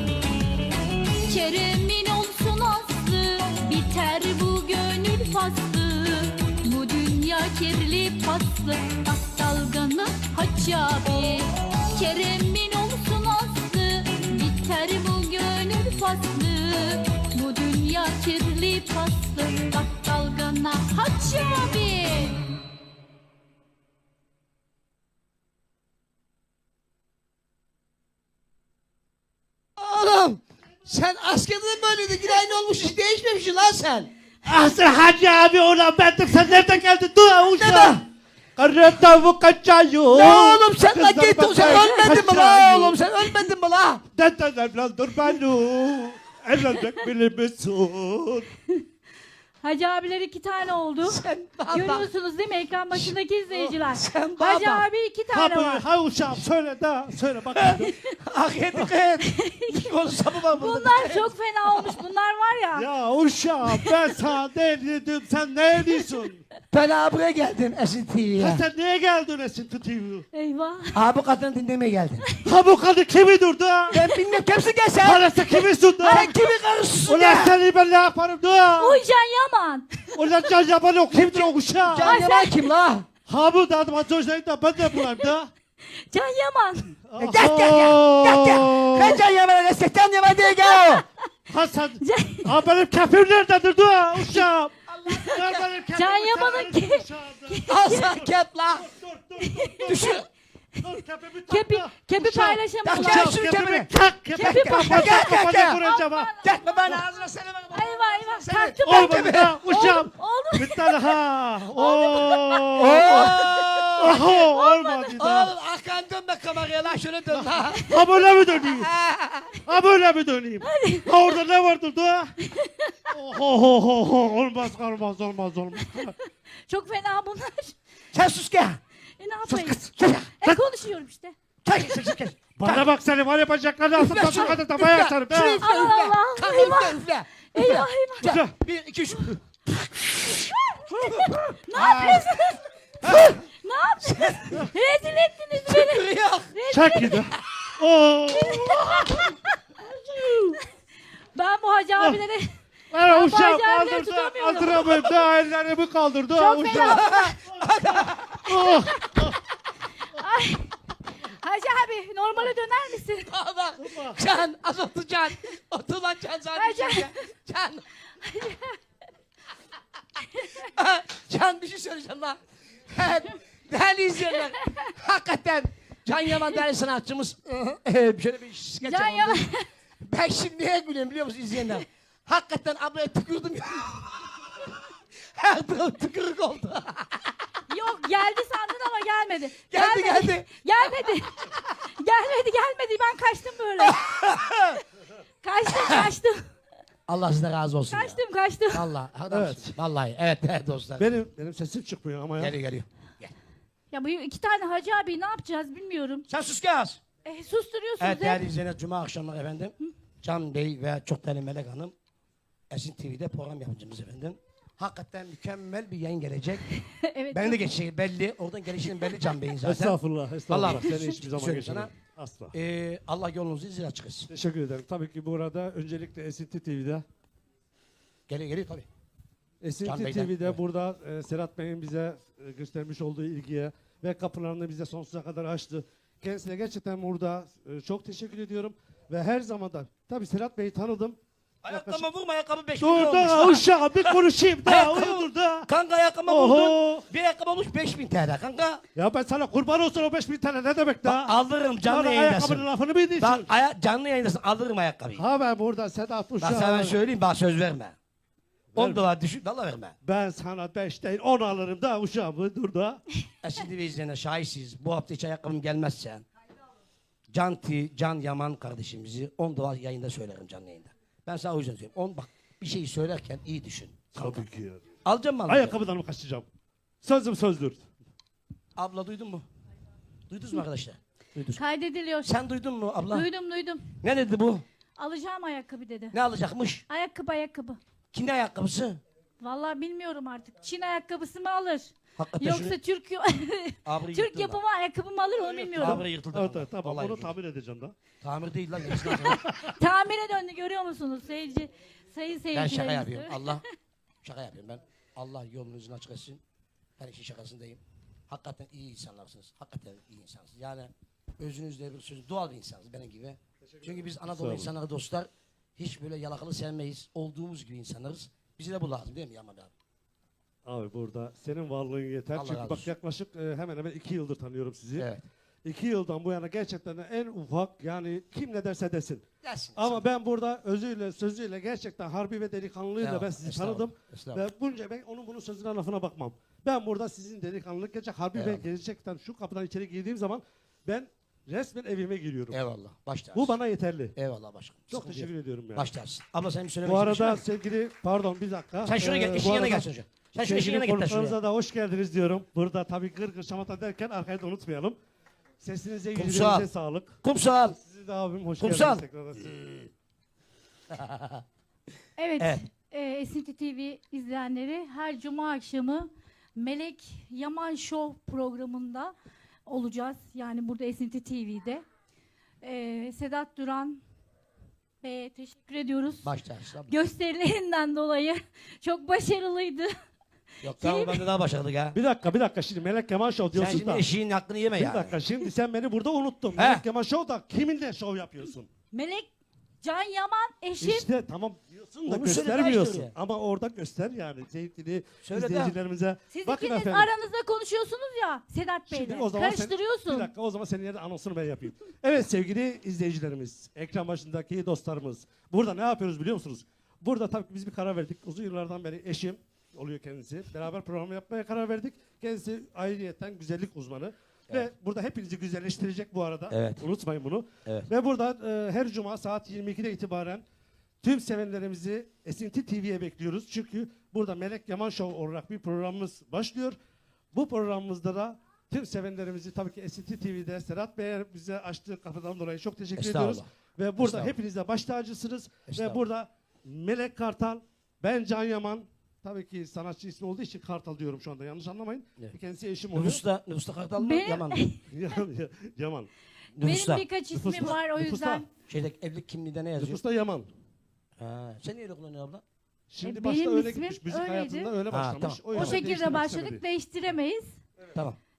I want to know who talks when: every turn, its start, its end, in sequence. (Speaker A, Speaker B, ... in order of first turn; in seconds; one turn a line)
Speaker A: 1.2-22.4
Speaker B: 29.8-34.1
Speaker C: 34.5-38.0
Speaker B: 37.5-38.0
Speaker C: 38.6-43.0
Speaker B: 40.1-44.0
Speaker A: 41.6-42.1
Speaker C: 44.1-48.5
Speaker A: 49.6-55.9
Speaker B: 51.0-52.1
Speaker C: 53.5-53.8
Speaker B: 53.9-54.9
Speaker C: 55.3-57.9
Speaker B: 57.5-62.0
Speaker A: 59.2-59.9
Speaker A: 60.5-62.9
Speaker C: 62.8-66.4
Speaker B: 66.7-68.6
Speaker C: 68.4-70.2
Speaker A: 70.3-71.0
Speaker B: 70.9-72.2
Speaker C: 72.5-74.0
Speaker B: 73.9-75.5
Speaker C: 75.0-76.3
Speaker B: 76.0-77.6
Speaker A: 76.1-76.5
Speaker C: 77.0-79.0
Speaker A: 78.8-80.2
Speaker C: 80.2-82.2
Speaker B: 81.2-83.1
Speaker A: 82.0-82.6
Speaker C: 83.3-85.5
Speaker A: 85.9-86.9
Speaker C: 87.0-89.2
Speaker B: 87.2-91.0
Speaker A: 90.6-91.0
Speaker C: 91.5-100.2
Speaker A: 92.0-92.5
Speaker B: 95.0-95.7
Speaker A: 95.9-98.0
Speaker B: 97.7-98.9
Speaker A: 99.5-100.0
Speaker B: 99.8-100.3
Speaker C: 100.8-106.3
Speaker A: 101.5-103.4
Speaker B: 102.8-105.8
Speaker A: 104.4-107.0
Speaker B: 106.4-109.6
Speaker A: 107.7-111.1
Speaker C: 108.8-113.3
Speaker A: 111.8-115.2
Speaker B: 112.8-114.2
Speaker C: 114.0-115.5
Speaker B: 115.2-117.8
Speaker C: 117.4-118.9
Speaker A: 117.7-118.1
Speaker B: 118.8-119.5
Speaker C: 119.7-122.3
Speaker A: 120.6-121.2
Speaker A: 122.4-123.1
Speaker C: 123.1-126.1
Speaker A: 126.0-127.8
Speaker B: 128.1-128.8
Speaker A: 129.2-129.8
Speaker B: 129.5-130.6
Speaker A: 130.4-131.3
Speaker B: 131.7-132.9
Speaker C: 132.6-135.7
Speaker B: 134.0-142.3
Speaker A: 135.6-138.4
Speaker C: 138.2-138.5
Speaker A: 140.4-142.6
Speaker B: 143.0-143.4
Speaker A: 143.3-147.1
Speaker B: 144.0-144.5
Speaker B: 145.7-146.5
Speaker C: 146.7-148.8
Speaker B: 147.3-147.6
Speaker A: 148.3-150.6
Speaker A: 151.3-155.0
Speaker C: 152.9-157.0
Speaker A: 156.3-157.4
Speaker B: 156.7-158.7
Speaker C: 158.5-159.4
Speaker A: 158.7-159.1
Speaker A: 160.1-163.3
Speaker B: 163.3-167.8
Speaker C: 163.8-164.2
Speaker A: 166.6-167.2
Speaker A: 168.2-168.8
Speaker B: 170.6-172.4
Speaker B: 172.9-179.5
Speaker A: 178.8-179.7
Speaker B: 180.0-184.8
Speaker B: 185.3-187.3
Speaker A: 187.7-194.0
Speaker B: 189.7-190.9
Speaker B: 193.9-194.8
Speaker A: 195.4-196.5
Speaker B: 195.7-196.1
Speaker B: 197.1-198.2
Speaker A: 197.9-198.9
Speaker B: 198.7-201.1
Speaker C: 199.3-199.8
Speaker C: 201.0-202.5
Speaker B: 202.4-203.3
Speaker A: 203.9-206.3
Speaker B: 206.3-207.0
Speaker A: 207.2-208.5
Speaker B: 208.0-211.9
Speaker B: 212.7-216.7
Speaker A: 216.8-217.6
Speaker B: 217.3-220.0
Speaker C: 219.6-222.5
Speaker B: 220.5-221.9
Speaker B: 222.5-224.3
Speaker C: 224.3-227.0
Speaker B: 228.3-228.9
Speaker C: 229.6-242.0
Speaker B: 229.8-230.6
Speaker B: 241.6-248.8
Speaker C: 242.8-245.7
Speaker C: 246.3-247.1
Speaker C: 248.9-251.3
Speaker B: 251.0-252.7
Speaker C: 251.8-253.5
Speaker B: 253.2-255.2
Speaker C: 255.2-257.0
Speaker B: 256.4-258.0
Speaker B: 258.8-259.9
Speaker C: 258.8-259.0
Speaker C: 260.0-263.0
Speaker B: 263.4-266.2
Speaker B: 267.3-274.4
Speaker C: 274.2-274.8
Speaker B: 275.1-275.8
Speaker C: 275.5-276.5
Speaker C: 277.0-277.9
Speaker B: 278.8-279.4
Speaker B: 280.3-281.6
Speaker A: 281.6-282.4
Speaker B: 282.2-283.3
Speaker A: 283.1-283.9
Speaker B: 284.0-284.6
Speaker A: 285.0-286.2
Speaker B: 286.1-286.8
Speaker A: 286.9-287.8
Speaker B: 288.1-289.0
Speaker A: 289.4-296.0
Speaker B: 292.2-292.8
Speaker B: 293.9-294.6
Speaker C: 295.6-298.0
Speaker B: 295.8-297.3
Speaker B: 298.2-299.4
Speaker A: 299.1-303.6
Speaker B: 302.5-303.6
Speaker B: 304.2-306.4
Speaker B: 307.0-319.7
Speaker C: 313.7-314.7
Speaker C: 320.6-325.1
Speaker B: 322.4-322.9
Speaker B: 325.0-325.2
Speaker C: 325.6-329.2
Speaker B: 329.4-330.1
Speaker C: 329.8-342.6
Speaker B: 333.0-334.4
Speaker B: 338.3-338.6
Speaker B: 342.5-343.6
Speaker C: 343.3-344.1
Speaker B: 344.1-347.4
Speaker C: 344.9-345.9
Speaker C: 346.9-355.0
Speaker B: 348.8-351.4
Speaker C: 355.6-357.2
Speaker B: 356.1-356.7
Speaker B: 357.2-357.8
Speaker C: 357.8-359.5
Speaker B: 358.6-359.9
Speaker B: 360.9-361.4
Speaker A: 362.2-369.1
Speaker A: 369.7-371.8
Speaker A: 372.6-374.0
Speaker A: 375.0-376.3
Speaker B: 376.2-376.9
Speaker A: 376.9-379.9
Speaker B: 380.6-382.0
Speaker A: 380.7-381.3
Speaker C: 381.9-384.1
Speaker B: 383.5-385.1
Speaker C: 384.8-388.7
Speaker B: 386.6-386.8
Speaker A: 388.9-389.3
Speaker A: 389.8-391.1
Speaker C: 390.8-397.1
Speaker B: 392.0-393.1
Speaker B: 395.2-395.8
Speaker A: 396.3-400.3
Speaker C: 398.9-420.4
Speaker B: 416.5-416.8
Speaker C: 421.0-426.8
Speaker C: 427.3-443.2
Speaker B: 433.0-433.5
Speaker B: 434.0-434.4
Speaker B: 435.7-436.0
Speaker B: 442.9-444.7
Speaker A: 444.0-444.9
Speaker C: 444.9-446.1
Speaker B: 446.6-447.1
Speaker A: 446.6-448.5
Speaker C: 447.3-448.4
Speaker B: 448.7-450.0
Speaker C: 449.8-450.5
Speaker B: 451.2-452.4
Speaker C: 452.9-456.6
Speaker A: 453.0-454.7
Speaker B: 454.9-455.8
Speaker A: 455.5-457.6